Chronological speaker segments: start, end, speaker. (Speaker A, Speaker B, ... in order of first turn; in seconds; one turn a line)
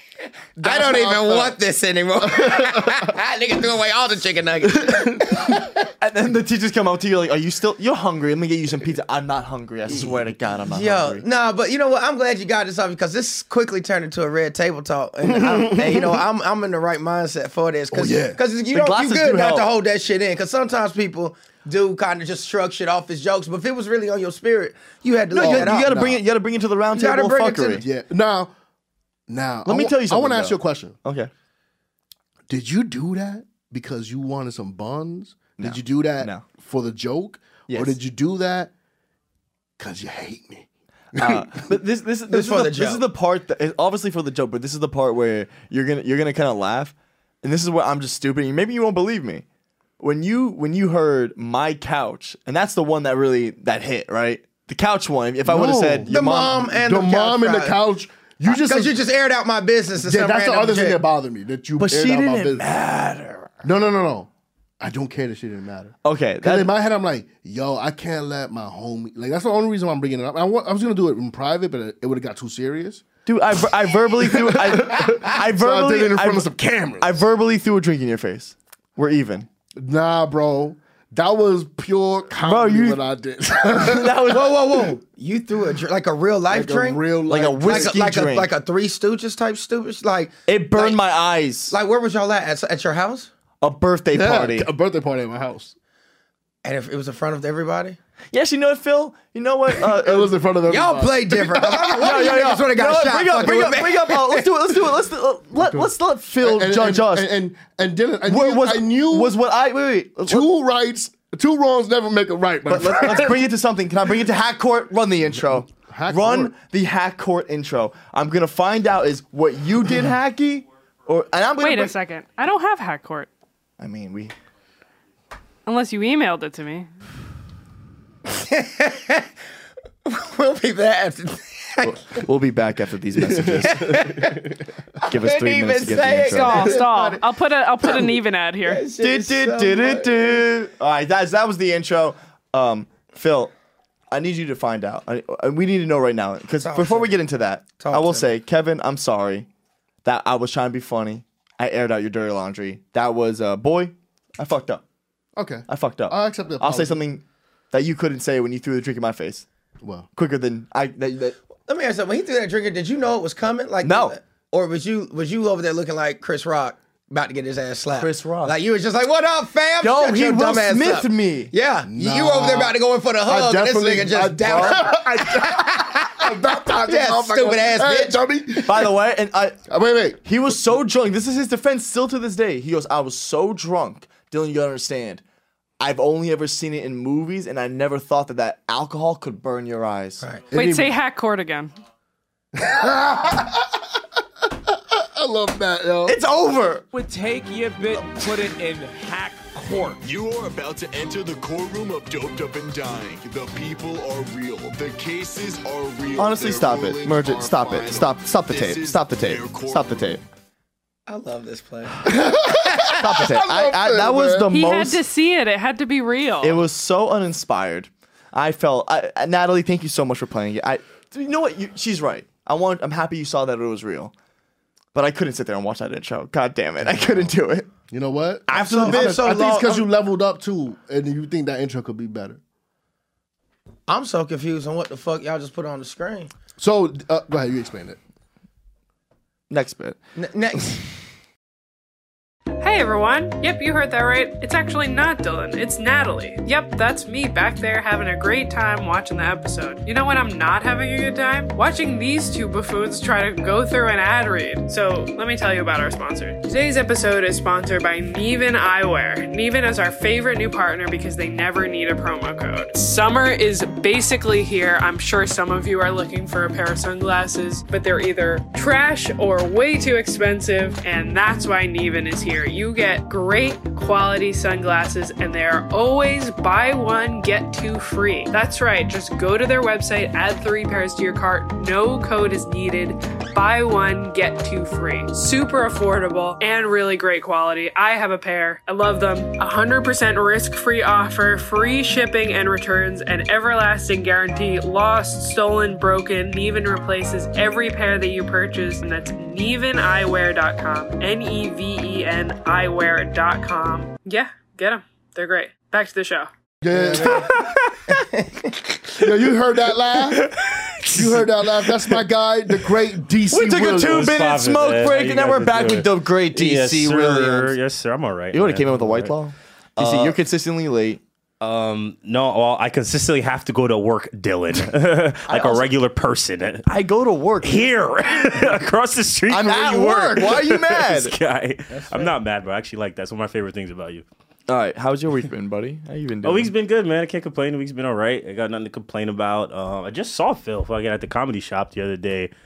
Speaker A: 0.6-1.6
Speaker B: 0.6-5.7
Speaker A: 2.2-3.1
Speaker A: 4.6-5.5
Speaker C: 6.0-11.2
Speaker B: 10.7-26.2
Speaker A: 15.3-16.2
Speaker A: 17.9-18.4
Speaker C: 18.7-19.7
Speaker C: 25.3-27.9
Speaker A: 25.4-26.1
Speaker B: 26.9-27.8
Speaker A: 27.8-28.5
Speaker A: 29.3-30.9
Speaker C: 29.7-31.3
Speaker A: 32.5-38.7
Speaker C: 35.6-36.5
Speaker C: 37.7-38.0
Speaker A: 39.8-41.7
Speaker C: 41.1-49.4
Speaker B: 42.3-43.0
Speaker C: 50.0-56.6
Speaker A: 55.5-58.9
Speaker B: 56.1-57.8
Speaker B: 58.4-61.0
Speaker A: 60.0-62.6
Speaker C: 61.8-63.5
Speaker A: 63.6-64.3
Speaker A: 64.8-73.1
Speaker C: 66.0-66.7
Speaker C: 73.3-79.5
Speaker A: 73.9-77.2
Speaker A: 79.8-84.3
Speaker C: 82.4-83.0
Speaker C: 83.8-84.6
Speaker B: 84.3-87.0
Speaker A: 86.5-88.0
Speaker C: 87.3-88.5
Speaker B: 87.6-91.0
Speaker C: 90.5-91.7
Speaker B: 91.7-93.3
Speaker C: 93.6-94.7
Speaker A: 94.1-95.8
Speaker B: 96.6-98.0
Speaker C: 98.3-100.3
Speaker A: 99.8-102.3
Speaker B: 100.7-104.5
Speaker C: 102.0-107.3
Speaker A: 105.6-109.3
Speaker C: 108.3-110.5
Speaker A: 110.3-113.4
Speaker C: 112.7-122.0
Speaker A: 115.4-116.5
Speaker D: 121.6-123.3
Speaker C: 123.8-124.3
Speaker D: 125.7-126.9
Speaker B: 128.3-129.3
Speaker B: 130.1-132.2
Speaker C: 131.8-134.0
Speaker A: 133.3-134.6
Speaker B: 133.7-134.4
Speaker B: 135.0-137.2
Speaker C: 135.1-136.8
Speaker D: 136.3-138.8
Speaker B: 137.8-138.1
Speaker B: 138.6-140.4
Speaker C: 139.0-143.5
Speaker C: 144.1-149.5
Speaker B: 146.6-147.2
Speaker B: 147.8-148.3
Speaker C: 150.0-154.8
Speaker A: 155.4-157.0
Speaker C: 155.7-159.4
Speaker A: 159.8-160.1
Speaker C: 160.2-161.4
Speaker B: 161.7-178.2
Speaker C: 163.8-164.2
Speaker C: 167.9-168.6
Speaker C: 169.8-171.5
Speaker A: 171.9-178.9
Speaker C: 174.4-174.8
Speaker C: 178.6-179.6
Speaker A: 179.7-180.6
Speaker C: 180.2-185.2
Speaker C: 185.8-190.2
Speaker B: 190.2-190.5
Speaker A: 190.5-190.9
Speaker D: 190.5-191.7
Speaker A: 192.6-194.0
Speaker A: 194.7-196.2
Speaker C: 196.1-196.9
Speaker E: 196.9-200.0
Speaker F: 200.0-210.2
Speaker C: 206.2-210.2
Speaker B: 211.1-213.0
Speaker A: 212.0-214.5
Speaker C: 213.0-215.0
Speaker D: 214.5-216.6
Speaker C: 216.4-224.1
Speaker C: 224.9-227.7
Speaker A: 227.9-232.4
Speaker B: 228.5-229.9
Speaker C: 228.5-229.2
Speaker B: 233.9-236.3
Speaker A: 236.6-238.0
Speaker C: 239.5-240.0
Speaker B: 240.2-240.8
Speaker D: 242.6-306.3
Speaker A: 306.6-307.3
Speaker B: 306.8-307.3
Speaker G: 307.0-308.0
Speaker B: 308.1-308.5
Speaker A: 309.0-310.3
Speaker G: 310.1-312.0
Speaker A: 310.9-314.2
Speaker C: 313.3-317.6
Speaker G: 313.8-319.1
Speaker C: 318.3-321.0
Speaker G: 319.8-320.2
Speaker G: 321.4-326.6
Speaker C: 325.3-325.7
Speaker C: 326.7-327.7
Speaker G: 327.4-334.1
Speaker C: 329.3-331.1
Speaker B: 331.7-332.2
Speaker C: 334.5-336.5
Speaker G: 336.2-342.3